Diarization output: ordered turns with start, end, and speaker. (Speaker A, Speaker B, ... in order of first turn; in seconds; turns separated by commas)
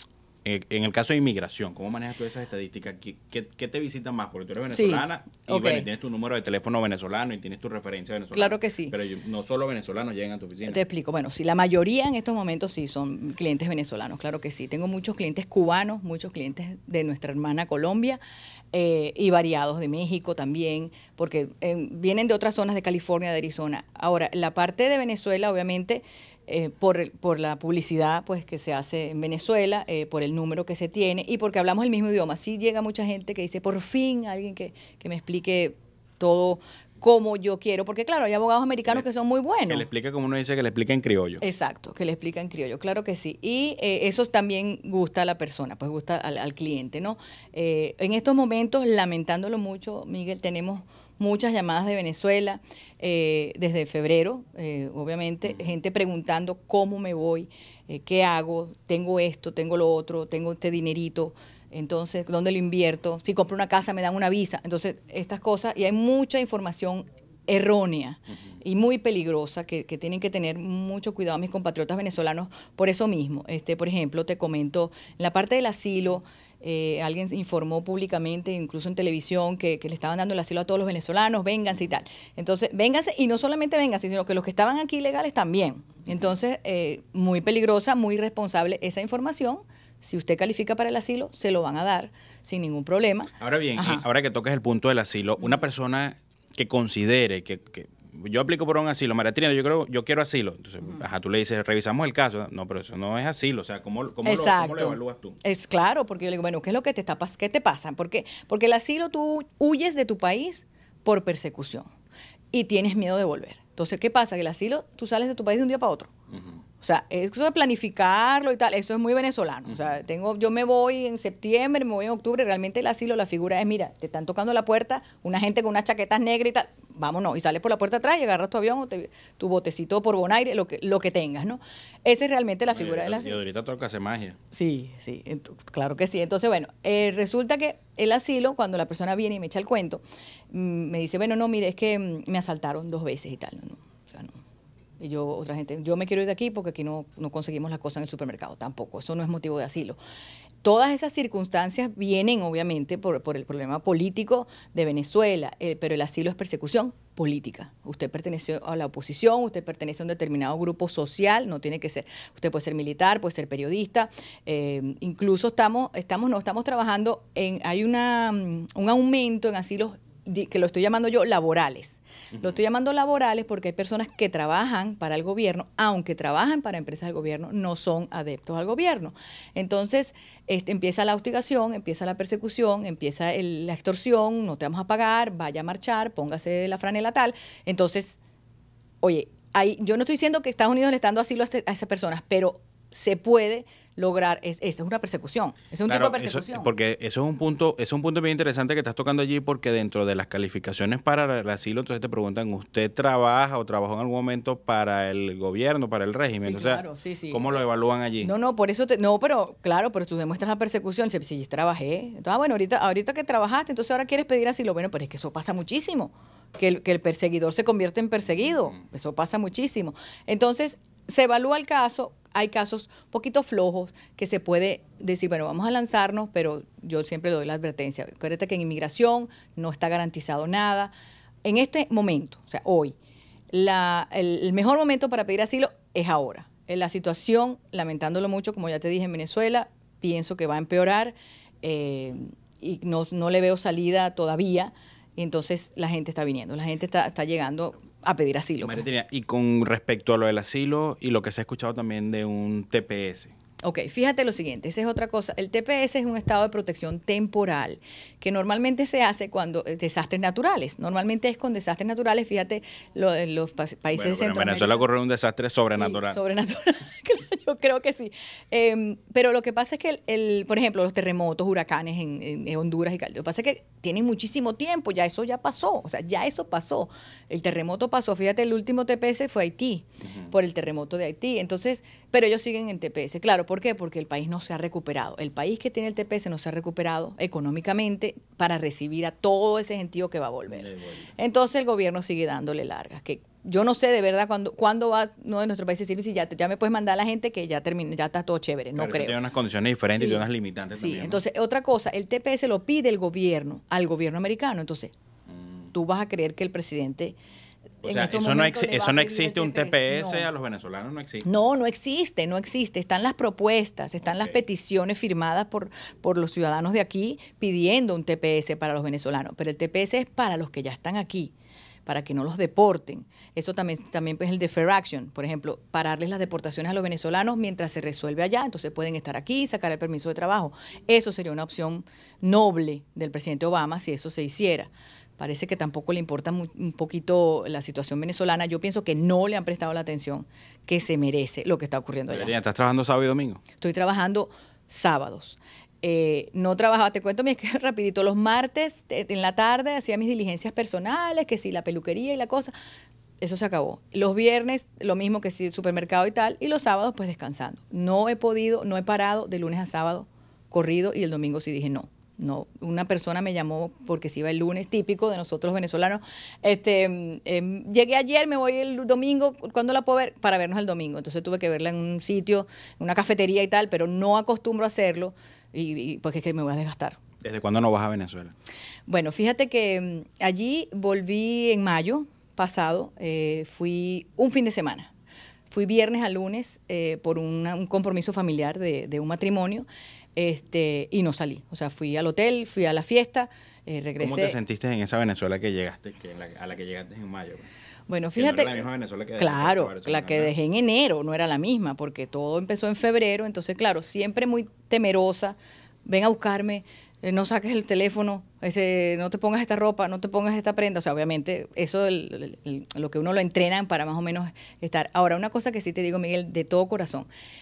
Speaker A: 0.5-10.8, Speaker B: 4.7-5.9, Speaker B: 8.3-8.9, Speaker B: 10.7-18.2, Speaker B: 18.7-39.9, Speaker A: 39.7-41.4, Speaker B: 41.4-94.0, Speaker A: 93.4-105.4, Speaker B: 104.2-111.9, Speaker B: 112.5-116.1, Speaker B: 116.8-133.4, Speaker A: 132.7-134.4, Speaker B: 134.5-144.4, Speaker B: 145.0-150.0, Speaker B: 150.6-188.2, Speaker B: 189.0-196.7, Speaker A: 195.9-208.3, Speaker B: 206.4-207.5, Speaker B: 208.2-230.9, Speaker B: 231.4-233.0, Speaker B: 233.5-248.8, Speaker A: 248.6-253.3, Speaker B: 253.6-264.9, Speaker A: 263.9-266.2, Speaker B: 265.8-299.2, Speaker A: 290.5-291.0, Speaker A: 298.8-301.2, Speaker B: 299.9-304.9, Speaker B: 305.7-307.2, Speaker B: 307.8-310.3, Speaker A: 307.8-311.3, Speaker B: 311.2-321.3, Speaker B: 321.9-342.3, Speaker A: 342.1-343.4, Speaker B: 343.6-352.5, Speaker B: 353.2-377.0, Speaker A: 377.2-378.3, Speaker B: 378.9-384.9, Speaker B: 385.5-394.4, Speaker A: 394.0-397.5, Speaker B: 397.9-398.7, Speaker A: 398.2-400.3, Speaker B: 399.2-417.1